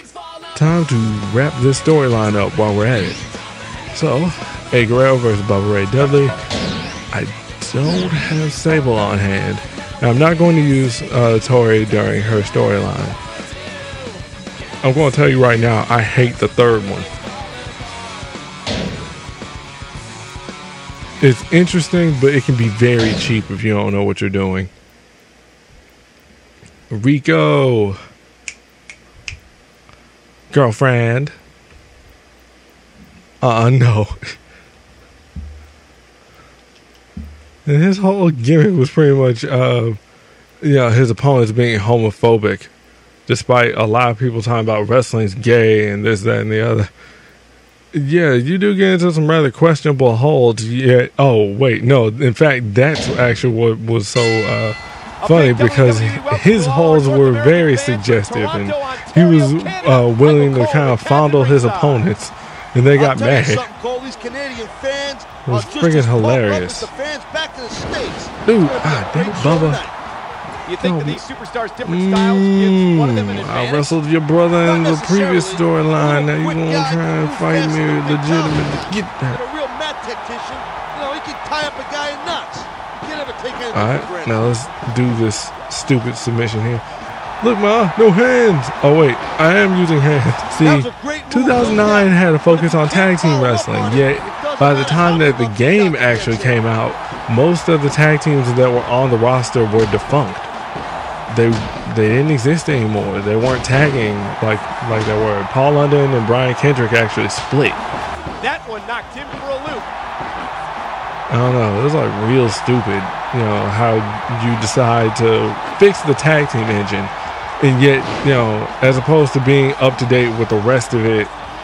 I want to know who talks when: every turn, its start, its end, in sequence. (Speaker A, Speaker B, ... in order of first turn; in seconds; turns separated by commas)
Speaker A: 0.5-3.2, Speaker A: 3.9-6.4, Speaker A: 7.1-13.2, Speaker A: 14.8-17.1, Speaker A: 21.2-24.7, Speaker A: 26.9-28.0, Speaker A: 30.5-31.3, Speaker A: 33.4-34.1, Speaker A: 37.6-40.0, Speaker A: 40.6-42.7, Speaker A: 43.3-46.9, Speaker A: 47.9-63.7, Speaker B: 55.2-62.1, Speaker C: 62.9-69.9, Speaker A: 65.5-66.9, Speaker A: 68.4-69.8, Speaker B: 70.6-73.9, Speaker A: 70.8-71.2, Speaker A: 71.8-79.4, Speaker C: 74.6-84.4, Speaker A: 83.7-86.8, Speaker A: 87.4-100.5, Speaker C: 90.6-96.6, Speaker A: 101.3-107.8, Speaker B: 108.4-109.9, Speaker A: 111.3-121.3